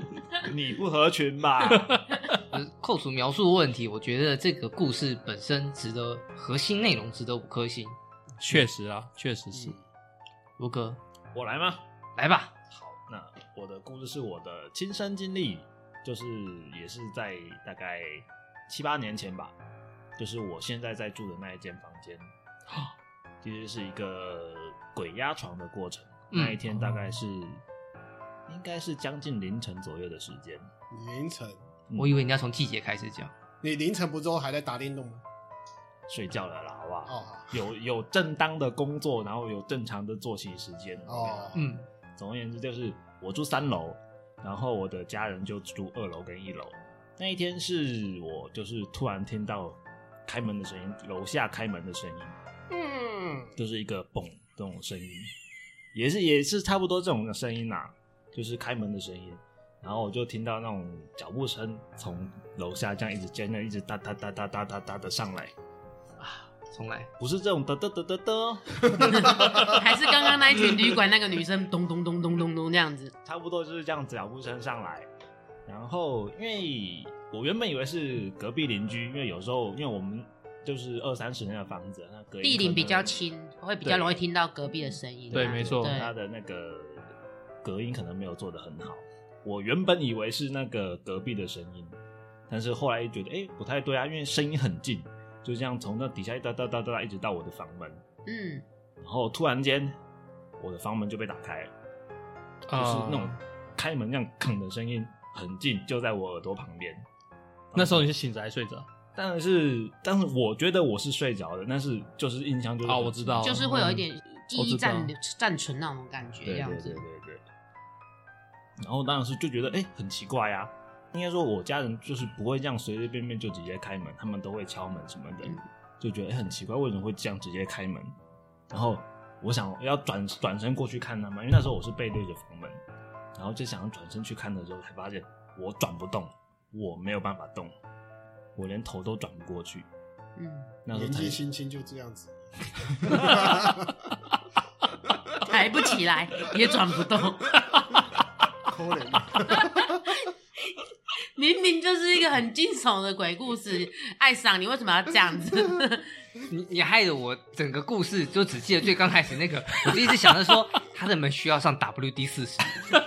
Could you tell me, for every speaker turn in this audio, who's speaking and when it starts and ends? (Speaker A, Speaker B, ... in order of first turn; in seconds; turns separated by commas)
Speaker A: 0.4-2.0, Speaker B: 1.7-2.4, Speaker C: 2.5-8.0, Speaker B: 8.4-9.8, Speaker C: 10.6-11.0, Speaker A: 11.3-11.8, Speaker C: 12.2-12.6, Speaker A: 12.7-19.5, Speaker A: 20.2-22.3, Speaker A: 23.4-27.6, Speaker C: 26.3-26.6, Speaker B: 26.7-27.0, Speaker A: 28.5-30.7, Speaker D: 30.9-31.6, Speaker A: 31.9-32.2, Speaker C: 32.0-33.3, Speaker D: 33.6-35.2, Speaker A: 36.1-41.6, Speaker D: 37.1-37.5, Speaker D: 41.1-41.6, Speaker C: 41.6-41.8, Speaker A: 42.2-52.4, Speaker D: 52.7-53.5, Speaker A: 53.6-55.3, Speaker A: 55.9-65.5, Speaker C: 66.2-67.1, Speaker A: 67.2-69.7, Speaker E: 69.0-73.1, Speaker A: 73.2-75.1, Speaker A: 75.7-83.2, Speaker E: 82.4-86.1, Speaker A: 83.8-84.1, Speaker A: 85.3-87.1, Speaker B: 85.3-86.0, Speaker A: 87.6-92.0, Speaker A: 92.5-98.0, Speaker E: 98.3-98.6, Speaker A: 99.0-100.0, Speaker A: 100.6-101.7, Speaker B: 102.7-103.4, Speaker A: 102.7-107.0, Speaker A: 107.7-108.1, Speaker B: 107.8-108.9, Speaker A: 109.2-113.7, Speaker B: 112.8-115.1, Speaker E: 113.4-117.0, Speaker A: 116.5-117.4, Speaker A: 118.8-128.1, Speaker A: 128.7-132.8, Speaker A: 133.4-137.7, Speaker A: 138.6-139.9, Speaker E: 140.4-140.8, Speaker A: 140.9-141.4, Speaker D: 140.9-144.1, Speaker A: 143.1-143.6, Speaker E: 145.4-147.6, Speaker D: 148.7-150.0, Speaker E: 151.4-156.1, Speaker C: 156.5-162.9